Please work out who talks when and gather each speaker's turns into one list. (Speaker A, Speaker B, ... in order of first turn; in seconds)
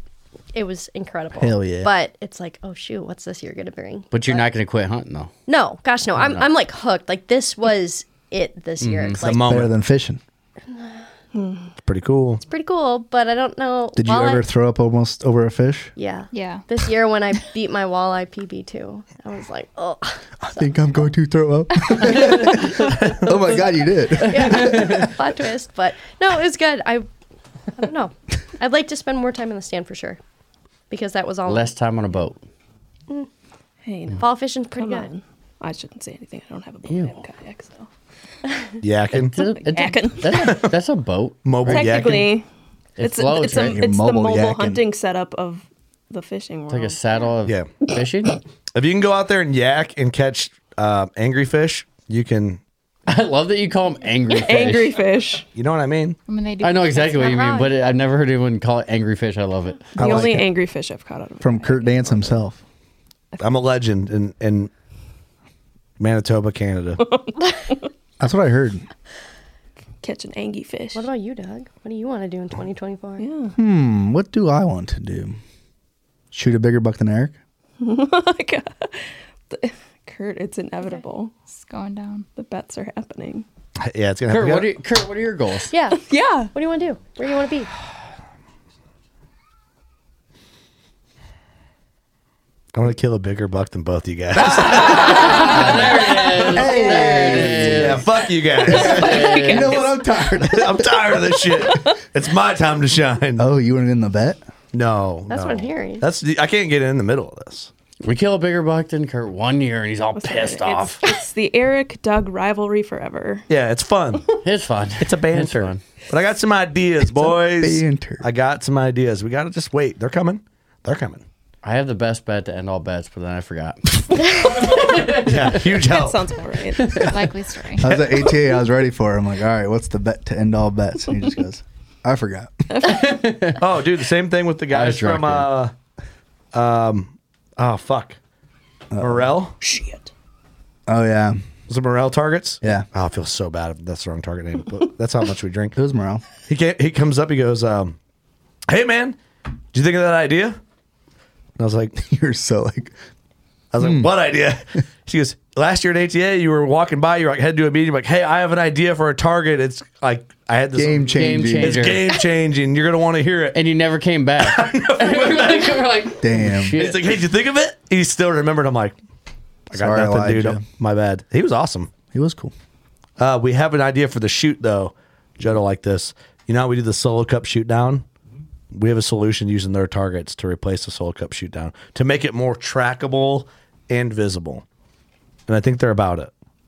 Speaker A: 0.5-4.5, 5.5-9.6, 10.7-11.0, 12.4-14.4, 15.9-20.7, 21.9-22.9, 24.2-27.1, 27.8-30.2, 30.9-31.8, 34.2-35.1, 56.9-57.8, 70.9-73.2, 85.7-87.7, 96.7-97.3, 105.3-106.0
Speaker B: 1.4-1.9, 9.4-10.2, 13.9-15.9, 20.4-25.1, 43.5-44.8, 60.0-60.4, 61.4-62.6, 68.2-68.8, 73.5-75.4, 76.3-77.3, 94.4-98.0, 98.6-101.9, 103.4-104.4, 117.1-118.2, 127.8-132.6, 138.9-139.3, 140.9-141.4, 142.6-142.9, 145.8-146.2, 152.0-152.9, 153.8-154.1, 160.7-162.0, 166.2-166.8, 169.7-170.6, 172.1-172.5
Speaker C: 4.1-5.3, 8.8-9.2, 24.4-25.1, 31.4-32.4, 36.9-37.2, 39.1-42.1, 43.0-43.8, 46.7-48.4, 53.1-55.0, 56.6-60.0, 84.3-85.7, 94.8-98.0, 98.7-99.8, 108.0-111.1, 114.4-115.8, 121.6-125.7, 126.8-127.1, 132.8-133.6, 134.7-135.5, 161.1-162.1, 163.5-167.1
Speaker D: 9.2-9.7, 11.8-12.4, 22.8-23.3, 38.8-39.4, 40.3-40.7, 41.4-42.3, 47.4-47.7, 48.7-52.6, 55.5-56.2, 60.0-60.4, 63.4-64.7, 66.0-67.0, 83.8-84.7, 92.7-95.6, 97.6-99.5, 100.4-103.5, 104.7-107.7, 113.5-114.3, 115.0-121.2, 125.2-126.2, 133.6-135.7, 136.5-138.2, 139.0-139.6, 141.7-145.8, 146.5-148.0, 148.7-149.2, 149.7-150.6, 151.6-152.0, 153.7-163.6, 164.4-165.8, 166.8-168.9, 169.7-171.9, 173.2-178.0, 178.7-184.6, 185.5-186.3
Speaker E: 11.3-11.7, 33.8-37.9, 39.4-40.6, 41.7-42.5, 43.0-47.0, 54.5-55.5, 60.0-62.3, 67.0-67.8, 70.0-71.1, 73.2-73.5, 77.8-81.3, 82.3-83.5, 86.1-86.5, 98.8-100.0, 110.2-113.5, 125.8-127.0, 132.7-133.2, 139.6-140.1
Speaker F: 16.3-16.6, 56.3-57.4, 81.5-82.2, 127.0-127.9